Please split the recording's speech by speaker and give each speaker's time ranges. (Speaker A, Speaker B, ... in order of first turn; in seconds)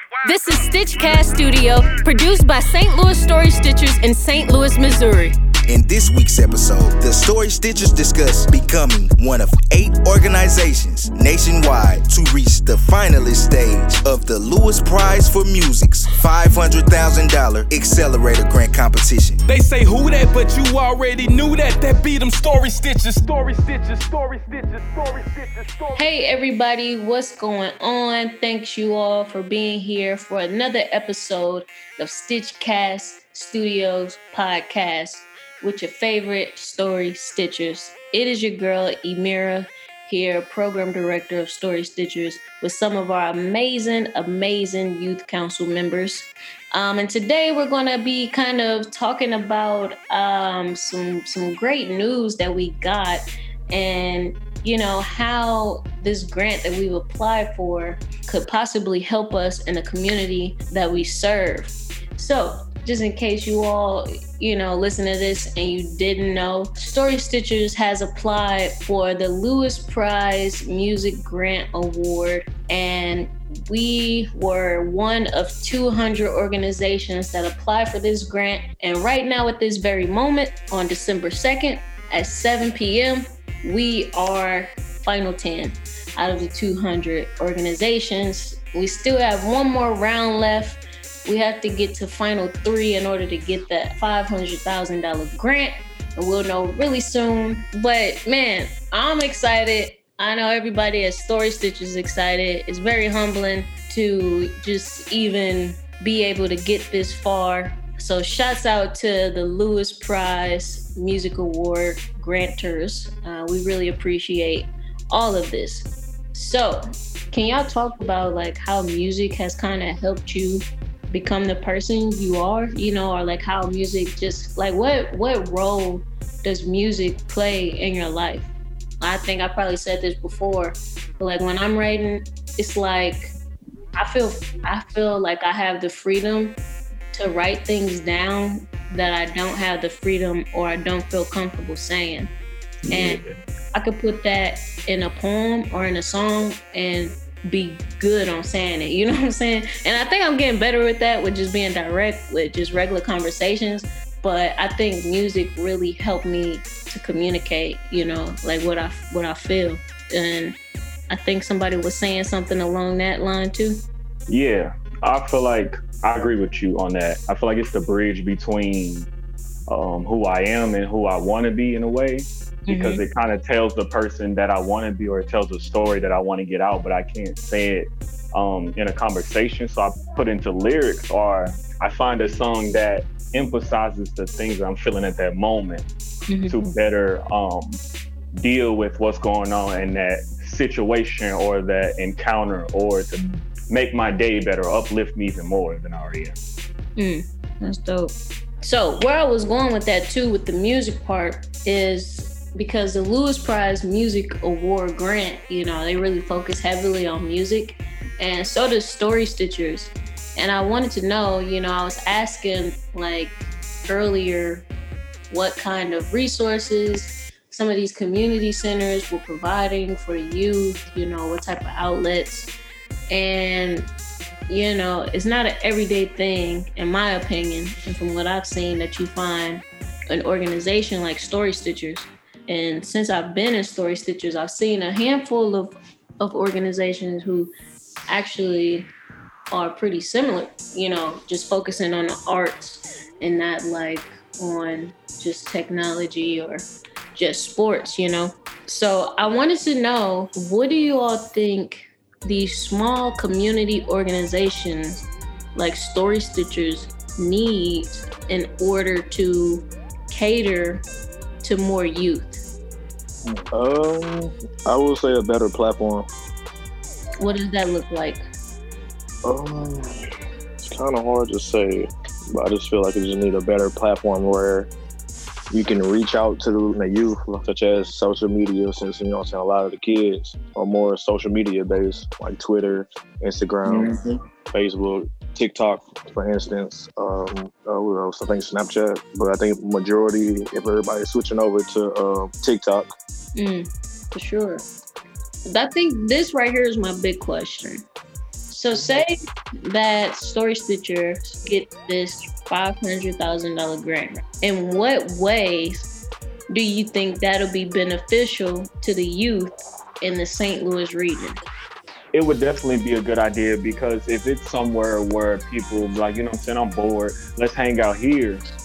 Speaker A: 0.2-5.4, 25.9-128.5, 129.0-133.3, 134.0-136.6, 137.1-142.3, 142.9-160.6, 161.1-163.8, 172.7-173.0, 186.3-186.7, 197.0-214.7, 215.3-222.5, 223.1-223.9, 224.5-237.5, 238.1-238.9, 239.5-255.0, 255.5-260.9, 261.4-262.4, 267.2-268.2, 293.4-294.6, 295.5-297.9, 298.5-305.9, 306.5-311.4
Speaker B: 5.7-19.4
Speaker C: 19.5-26.0
Speaker D: 142.8-143.3, 164.3-169.1, 169.7-185.9, 186.5-187.8, 188.3-196.4, 312.1-318.4
Speaker E: 263.3-266.1, 269.2-270.0, 270.6-274.7, 275.5-284.0, 284.5-292.9